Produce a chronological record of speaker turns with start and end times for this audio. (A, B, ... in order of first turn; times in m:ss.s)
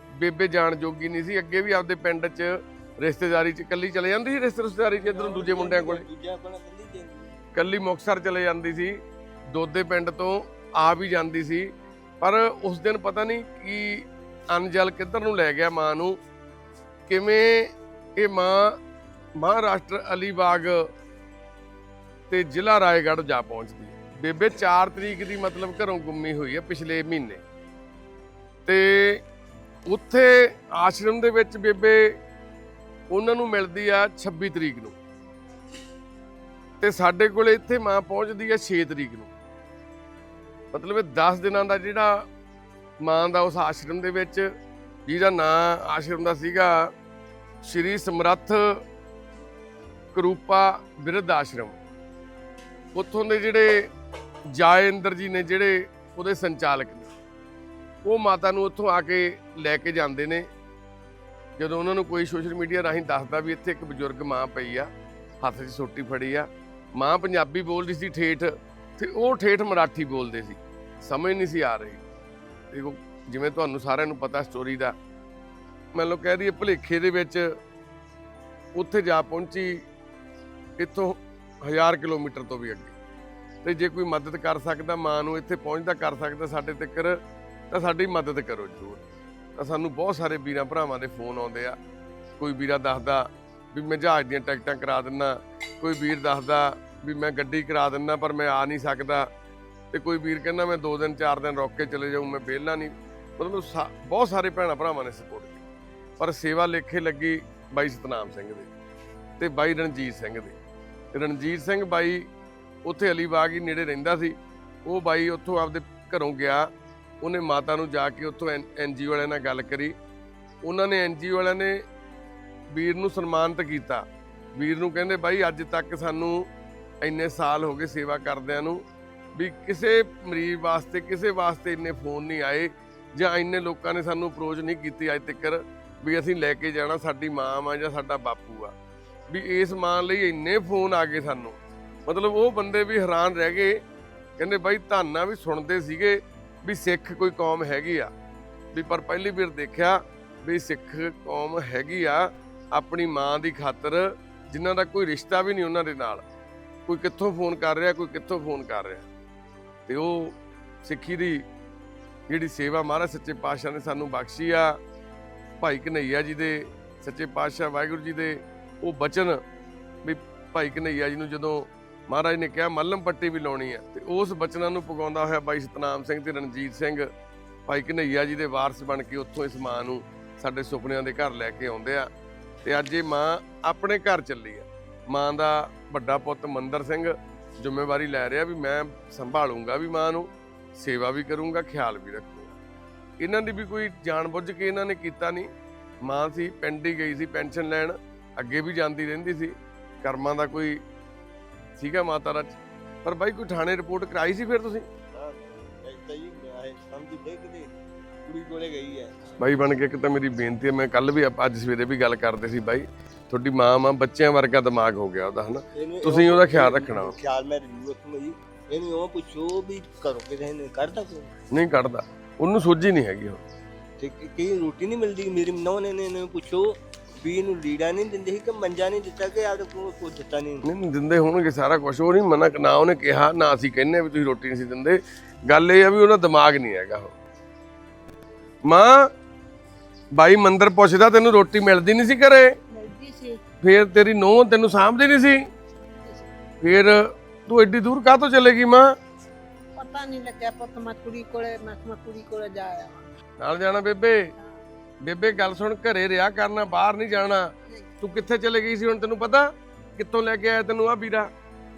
0:00.2-0:06.0 A
0:05.0-0:07.4 B
0:07.5-0:09.0 A
0:09.5-0:11.7 A
0:12.2-0:16.2 A
0:17.1-0:18.8 A
0:19.4-0:20.9 A
0:22.3-0:27.4 A
0:28.6-0:29.2 A
0:29.9-0:32.2 A
0:33.1-0:35.0 A
0:36.8-0:39.3 A
0:40.7-0:42.2 A
0:43.0-0:44.5 A
0:45.1-0:46.9 A
0:47.6-0:48.8 A
0:50.1-0:51.8 A
0:52.9-0:53.9 A
0:54.5-0:57.1 A
0:58.0-1:00.5 A
1:01.6-1:04.9 A
1:05.4-1:12.0 A
1:12.7-1:14.9 A
1:16.0-1:17.5 A
1:18.8-1:19.8 A
1:20.8-1:23.0 A
1:23.6-1:29.0 A
1:29.6-1:31.8 A
1:32.4-1:39.3 A
1:39.9-1:45.6 A
1:46.2-1:48.7 A
1:49.4-1:50.6 A
1:51.1-1:52.2 A
1:52.9-1:54.3 A
1:54.9-1:56.7 A
1:57.2-1:59.9 A
2:00.6-2:01.8 A
2:02.7-2:04.0 A
2:04.6-2:06.4 A
2:07.0-2:08.8 A
2:09.4-2:18.7 A
2:19.3-2:23.8 A
2:24.4-2:28.1 A
2:28.7-2:36.2 A
2:36.9-2:39.1 A
2:39.9-2:41.4 A
2:42.3-2:44.8 A
2:45.6-2:49.4 A
2:50.0-2:57.1 A
2:57.7-3:02.1 A
3:02.6-3:12.6 A
3:13.2-3:15.5 A
3:16.0-3:20.8 A
3:21.8-3:24.9 A
3:25.1-3:29.3 B
3:29.4-3:37.1 A
3:35.7-3:41.3 B
3:41.5-3:43.4 A
3:44.0-3:50.6 B
3:50.6-3:57.2 A
3:58.7-3:59.1 A
4:00.2-4:02.5 A
4:02.7-4:03.4 C
4:03.6-4:05.4 A
4:05.8-4:06.3 C
4:06.6-4:09.0 A
4:09.8-4:13.1 C
4:13.4-4:14.3 A
4:15.0-4:21.3 A
4:17.7-4:17.9 C